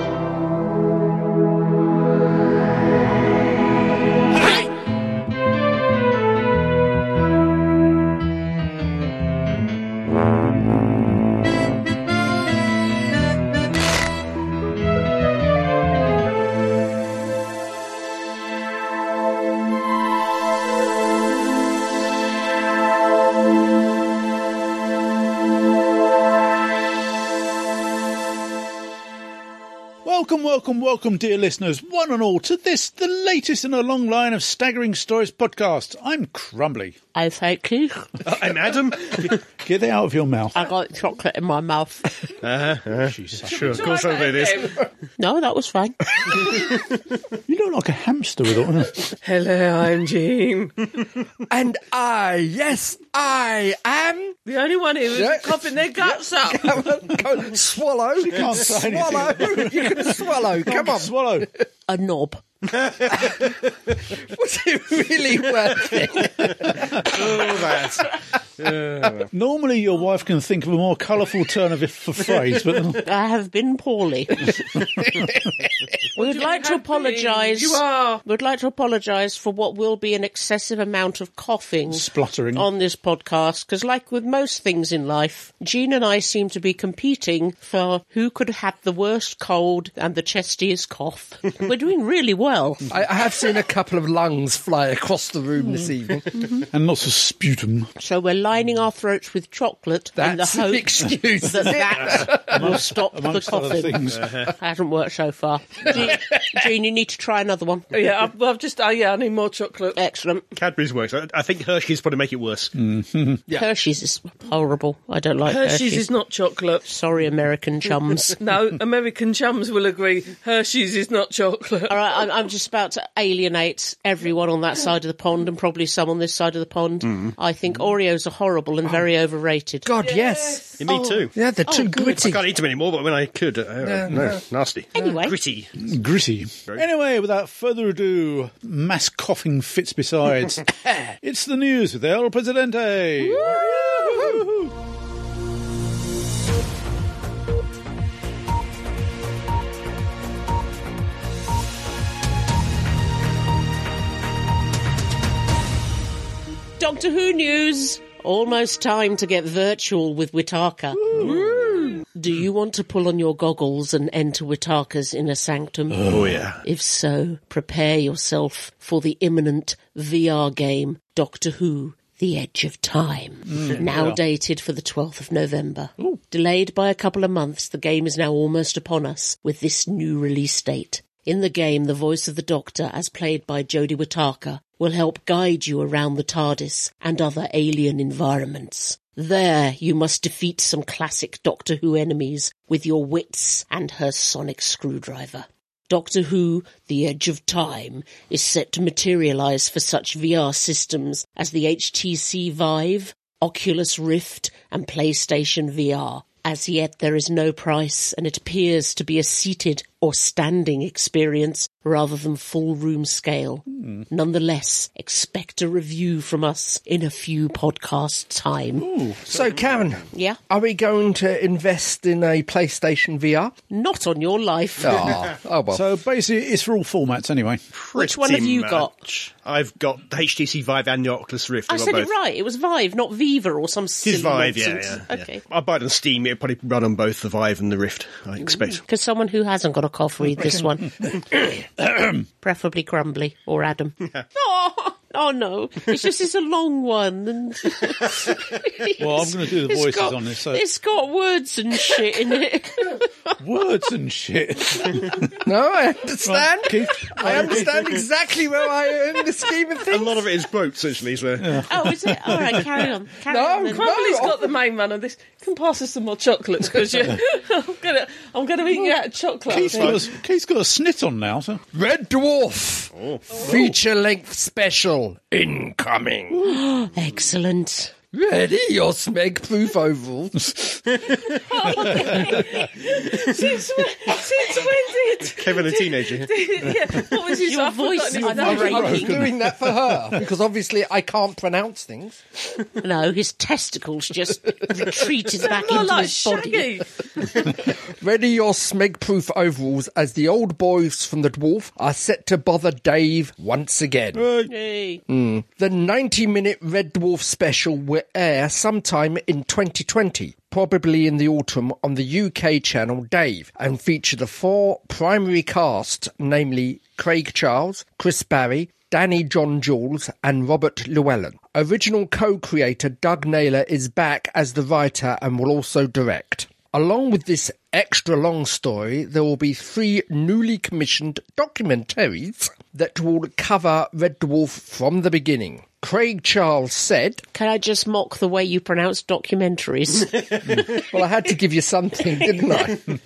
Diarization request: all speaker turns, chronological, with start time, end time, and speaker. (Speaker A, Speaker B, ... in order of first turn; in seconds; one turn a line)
Speaker A: 30.0-37.0
Speaker B: 37.1-38.2
Speaker C: 38.2-39.4
Speaker A: 39.6-40.5
Speaker B: 40.5-42.3
Speaker C: 42.4-44.8
Speaker A: 43.0-43.9
Speaker D: 43.5-44.8
Speaker B: 45.2-46.5
Speaker C: 46.5-46.7
Speaker A: 47.5-49.1
Speaker D: 49.2-50.8
Speaker E: 51.5-54.4
Speaker D: 54.5-56.9
Speaker E: 55.1-61.1
Speaker A: 58.2-61.5
Speaker B: 61.9-62.5
Speaker E: 63.1-63.4
Speaker E: 64.2-67.8
Speaker C: 67.0-68.0
Speaker C: 68.6-69.2
Speaker A: 69.3-73.0
Speaker B: 73.0-74.5
Speaker B: 76.2-92.9
Speaker D: 76.2-78.2
Speaker A: 81.9-82.7
Speaker E: 92.9-96.3
Speaker A: 96.7-97.9
Speaker B: 98.0-107.9
Speaker E: 100.2-102.5
Speaker A: 102.2-104.4
Speaker C: 104.1-104.5
Speaker D: 107.9-110.0
Speaker B: 110.0-110.4
Speaker C: 110.5-112.7
Speaker A: 112.7-113.4
Speaker B: 113.5-116.1
Speaker D: 115.4-116.8
Speaker B: 116.8-118.4
Speaker D: 118.4-122.0
Speaker B: 121.9-129.9
Speaker C: 127.1-127.3
Speaker E: 129.8-132.6
Speaker D: 130.0-130.8
Speaker C: 130.8-131.3
Speaker B: 131.7-132.3
Speaker C: 132.2-135.8
Speaker E: 133.8-134.4
Speaker B: 134.9-135.3
Speaker A: 135.8-140.7
Speaker A: 141.2-143.5
Speaker E: 143.4-144.4
Speaker B: 143.4-144.1
Speaker A: 144.2-144.7
Speaker B: 156.8-218.9
Speaker E: 161.1-161.9
Speaker C: 166.0-166.6
Speaker A: 173.5-174.2
Speaker A: 213.7-214.1
Speaker A: 218.8-219.2
Speaker E: 219.2-223.5
Speaker B: 220.1-220.4
Speaker B: 223.7-225.3
Speaker E: 224.8-225.8
Speaker A: 225.7-227.6
Speaker C: 227.7-232.1
Speaker B: 227.9-229.0
Speaker B: 231.7-235.4
Speaker C: 234.0-238.8
Speaker B: 238.4-241.0
Speaker A: 241.8-242.2
Speaker B: 242.4-253.3
Speaker A: 249.0-250.6
Speaker A: 253.4-255.4
Speaker E: 255.4-260.3
Speaker A: 256.2-257.7
Speaker C: 259.9-261.7
Speaker A: 261.4-262.5
Speaker B: 261.7-264.2
Speaker E: 263.3-264.5
Speaker D: 263.7-270.0
Speaker A: 269.5-271.6
Speaker C: 269.7-270.0
Speaker E: 271.7-276.4
Speaker C: 272.9-273.6
Speaker B: 276.4-277.9
Speaker E: 278.1-280.6
Speaker C: 280.9-281.3
Speaker D: 281.5-288.8
Speaker B: 281.8-282.3
Speaker C: 285.3-286.3
Speaker B: 287.3-289.2
Speaker A: 288.1-290.2
Speaker E: 288.2-292.2
Speaker B: 292.8-296.8
Speaker D: 295.5-296.9
Speaker E: 297.4-304.3
Speaker A: 304.1-304.5
Speaker B: 304.4-305.0
Speaker E: 305.1-337.2
Speaker B: 337.3-340.5
Speaker C: 340.5-340.8
Speaker E: 340.9-342.8